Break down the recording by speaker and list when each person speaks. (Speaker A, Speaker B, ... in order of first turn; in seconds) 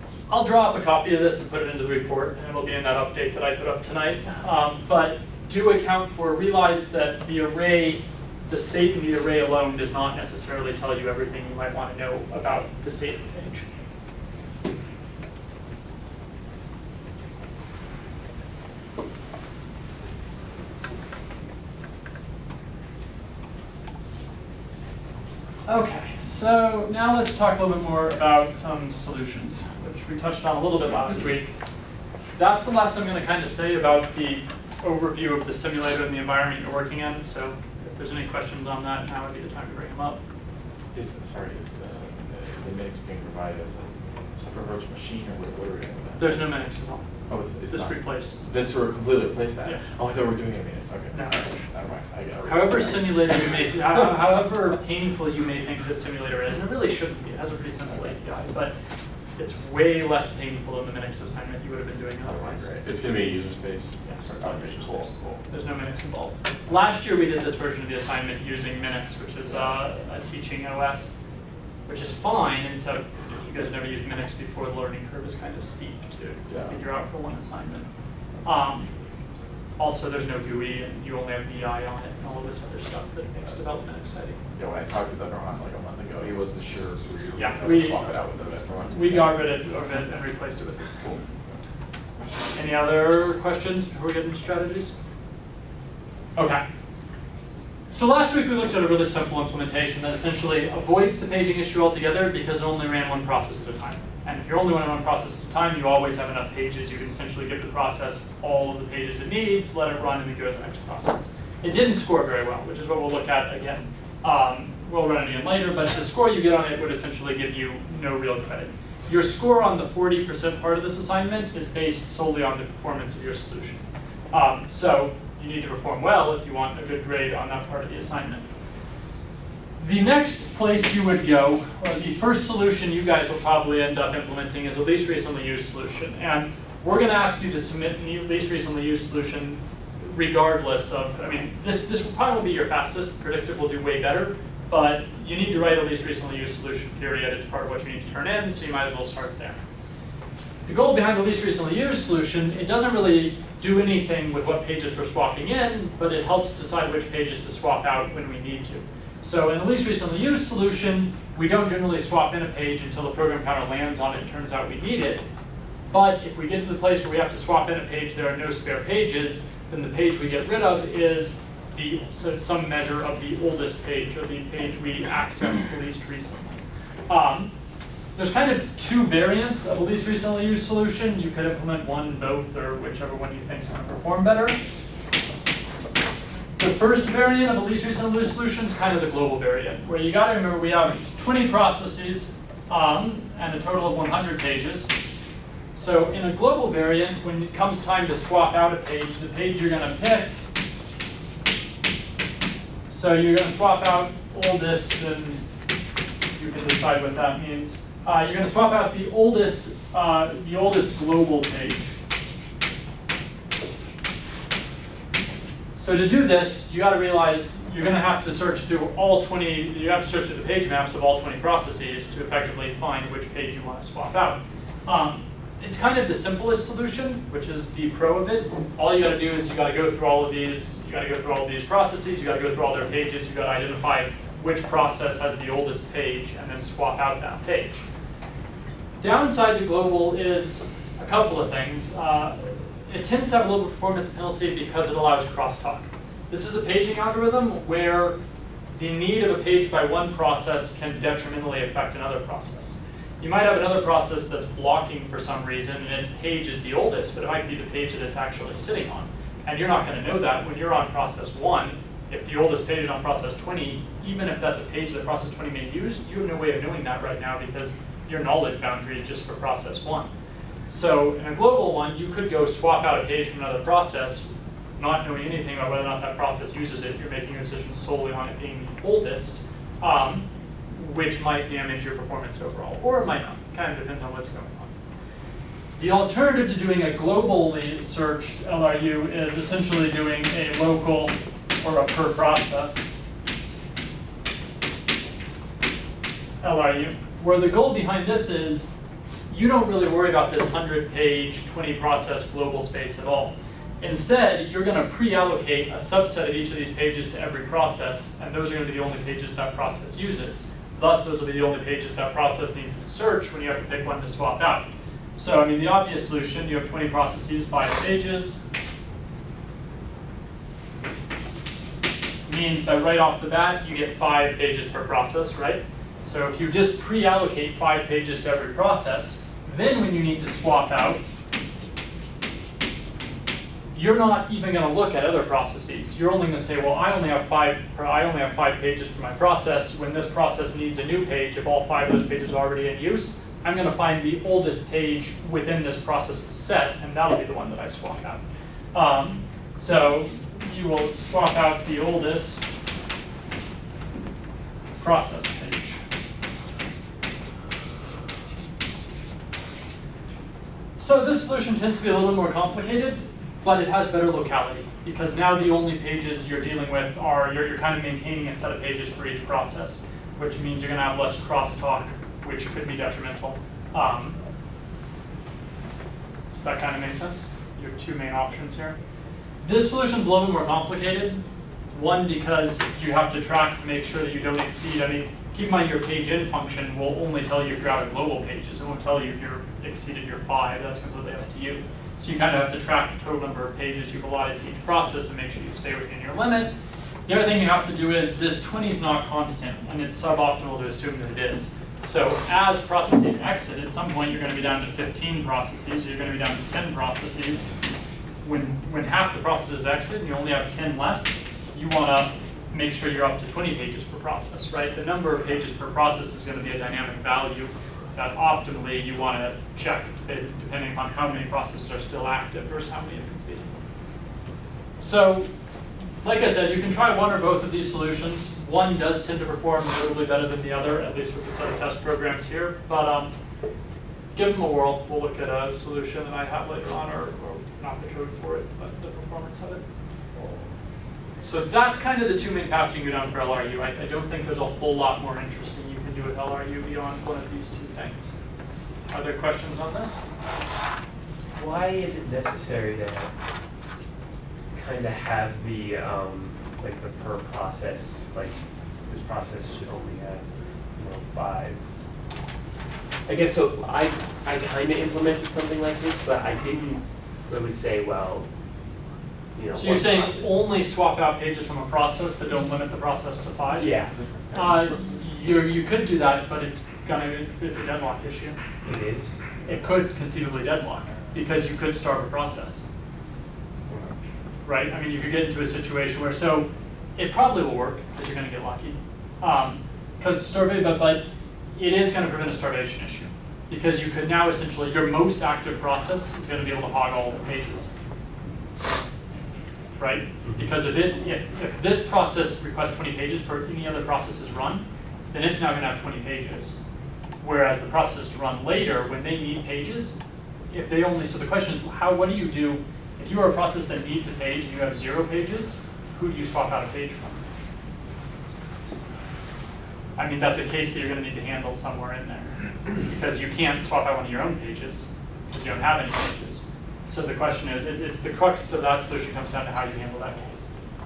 Speaker A: 0.3-13.7, 25.7-31.5, 32.4-40.2, 46.2-47.1, 47.7-48.4, 51.1-51.5, 52.4-58.7, 59.4-62.7, 64.0-71.2, 71.9-77.8, 78.4-78.9, 79.8-84.4, 87.3-88.1, 88.9-91.2, 92.5-94.9, 96.3-96.6, 97.9-128.4, 129.8-149.6, 150.7-165.2, 165.9-177.5, 178.2-184.6, 186.6-194.9, 195.7-200.4, 202.9-205.4, 206.3-211.9, 215.8-237.8, 239.0-248.2, 248.8-270.1, 270.7-284.7, 285.8-292.9, 296.4-298.7, 299.3-318.4, 322.3-331.0, 333.7-348.2, 348.7-352.5, 354.8-355.8, 360.8-374.2, 376.3-378.8, 379.4-396.5, 397.1-407.5, 408.2-423.6, 424.8-425.3, 426.0-433.1, 434.1-439.6, 441.2-448.1, 448.9-450.0, 469.5-473.8, 474.3-478.4, 479.4-482.6, 484.4-497.7, 499.8-506.6, 507.2-510.0, 510.5-517.2, 520.0-530.5
Speaker B: 40.9-46.5, 47.3-53.5, 62.2-65.4, 76.5-76.8, 84.5-89.5, 473.6-475.2
Speaker C: 440.1-440.5, 451.3-453.1, 454.5-458.4, 458.9-461.6, 463.1-468.3, 469.4-470.4, 473.5-473.9, 478.6-479.2, 483.7-483.9